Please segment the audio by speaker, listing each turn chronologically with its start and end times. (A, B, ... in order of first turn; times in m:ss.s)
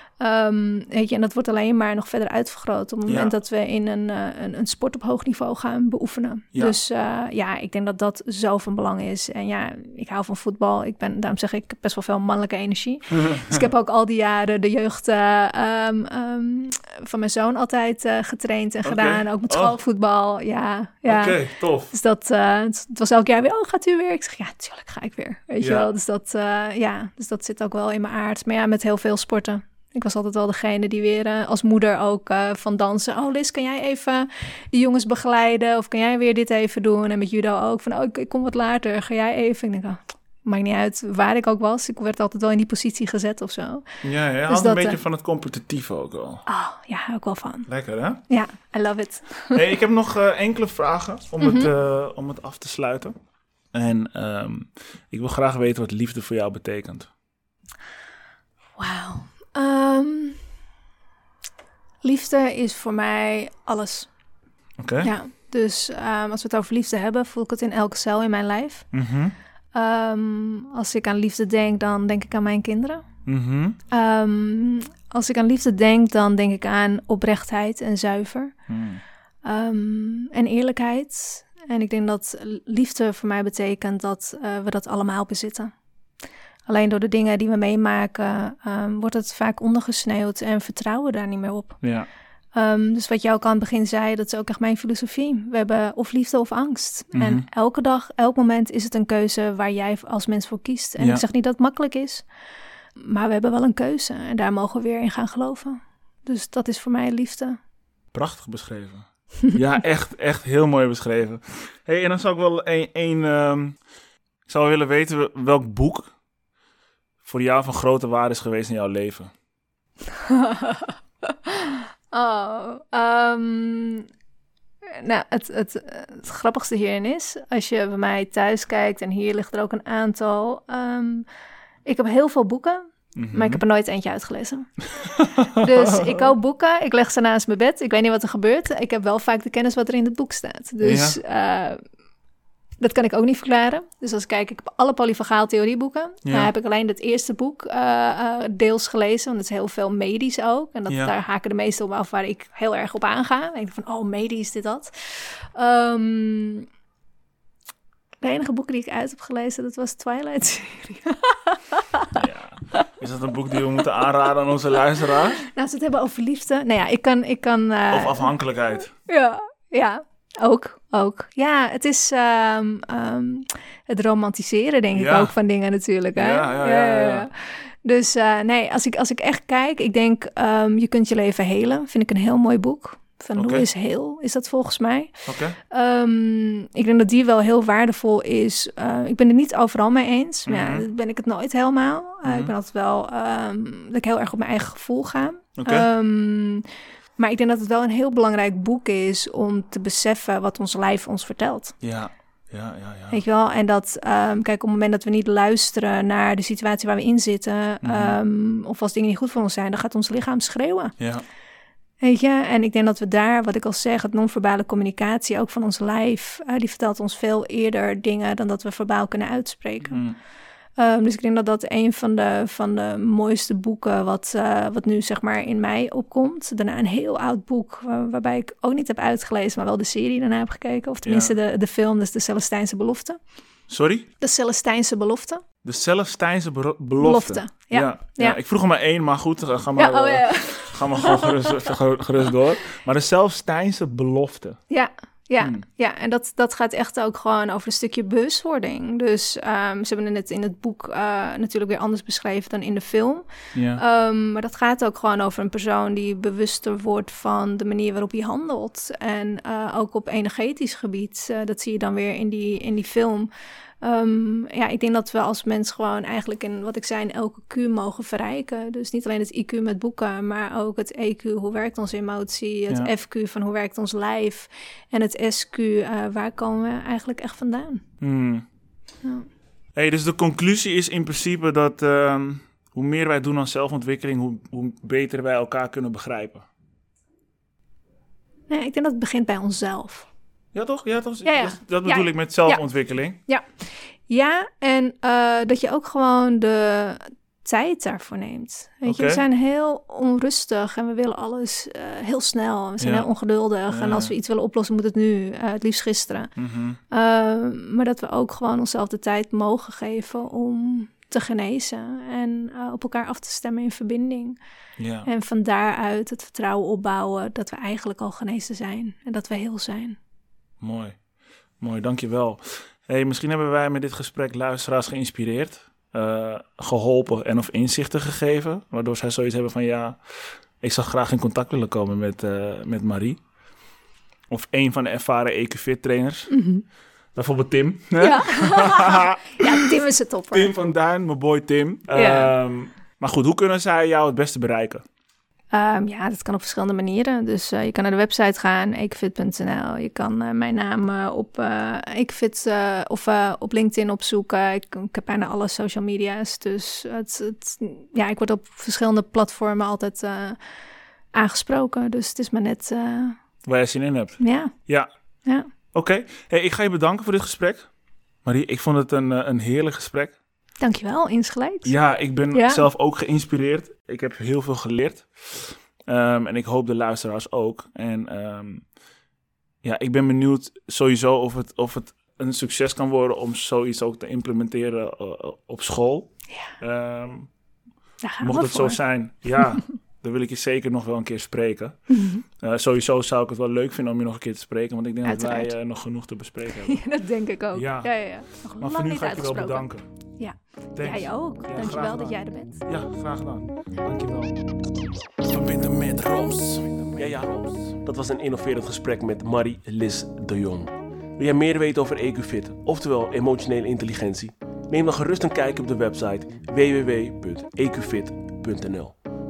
0:00.2-0:43.9 A
0:03.1-0:03.3 B
0:13.2-0:13.6 B
0:18.8-0:19.8 B
0:21.1-0:21.9 B
0:25.6-0:25.9 B
0:44.0-0:46.4 B
0:44.5-0:45.0 A
0:46.5-0:47.7 A
0:47.7-0:48.2 B
0:48.3-0:49.6 A
0:49.5-0:53.2 B
0:51.4-0:51.7 A
0:53.7-0:57.1 B
0:58.8-1:00.5 A
1:02.0-1:04.1 A
1:04.8-1:05.1 B
1:05.0-1:08.9 A
1:08.9-1:09.4 B
1:09.8-1:13.0 A
1:13.3-1:13.8 B
1:13.9-1:18.6 A
1:18.7-1:19.0 B
1:19.4-1:25.7 A
1:26.7-1:31.8 A
1:31.8-1:32.1 B
1:32.6-1:42.3 A
1:37.1-1:37.5 B
1:41.0-1:41.2 B
1:43.0-1:47.6 A
1:48.1-1:53.8 B
1:54.5-1:56.1 B
1:57.2-1:59.3 B
2:00.2-2:04.1 A
2:04.9-2:11.3 A
2:11.8-2:14.8 A
2:13.2-2:13.6 B
2:15.0-2:16.3 B
2:15.5-2:21.8 A
2:20.8-2:21.2 B
2:22.8-2:36.7 A
2:26.2-2:26.5 B
2:30.9-2:31.1 B
2:38.2-2:42.2 A
2:42.1-2:45.4 B
2:45.2-2:48.3 A
2:47.9-2:48.9 B
2:49.0-3:16.6 A
2:55.0-2:55.4 B
2:56.2-2:57.3 B
3:03.4-3:03.7 B
3:05.3-3:05.6 B
3:10.5-3:10.9 B
3:12.2-3:12.5 B
3:15.6-3:15.9 B
3:17.2-3:21.8 A
3:21.8-3:23.2 B
3:23.1-3:30.9 A
3:27.8-3:28.2 B
3:31.0-3:31.2 B
3:32.0-3:40.0 A
3:39.9-3:40.2 B
3:40.8-3:53.2 A
3:51.0-3:51.4 B
3:53.7-3:54.1 B
3:54.2-3:55.4 A
3:55.6-4:04.6 B
3:57.0-3:58.4 A
3:59.8-4:01.7 A
4:04.7-4:23.3 A
4:13.6-4:13.8 B
4:23.8-4:37.8 A
4:38.0-4:38.5 B
4:39.0-4:39.3 A
4:39.7-4:46.5 B
4:48.5-4:50.1 A
4:50.5-4:53.2 B
4:51.2-4:52.6 A
4:53.3-5:06.3 A
4:58.9-4:59.2 B
5:02.8-5:03.1 B
5:03.7-5:04.1 B
5:06.4-5:06.8 B
5:06.9-5:14.4 A
5:14.8-5:15.1 B
5:15.0-5:20.0 A
5:20.6-5:21.0 B
5:21.6-5:33.2 B
5:34.3-5:36.3 B
5:36.3-5:36.6 A
5:37.2-5:39.7 B
5:38.0-5:40.5 A
5:40.3-5:44.8 B
5:41.9-5:42.4 A
5:45.5-6:00.4 A
6:01.1-6:03.2 A
6:03.4-6:04.9 B
6:04.2-6:04.5 A
6:05.7-6:07.7 B
6:08.2-6:10.2 B
6:10.6-6:11.7 A
6:11.6-6:18.7 B
6:12.3-6:12.7 A
6:19.6-6:27.3 B
6:28.0-6:28.8 A
6:28.2-6:36.8 B
6:31.9-6:32.2 A
6:35.0-6:35.5 A
6:36.7-6:42.6 A
6:37.5-6:39.9 B
6:40.8-6:44.4 B
6:45.3-6:47.3 B
6:47.0-6:59.0 C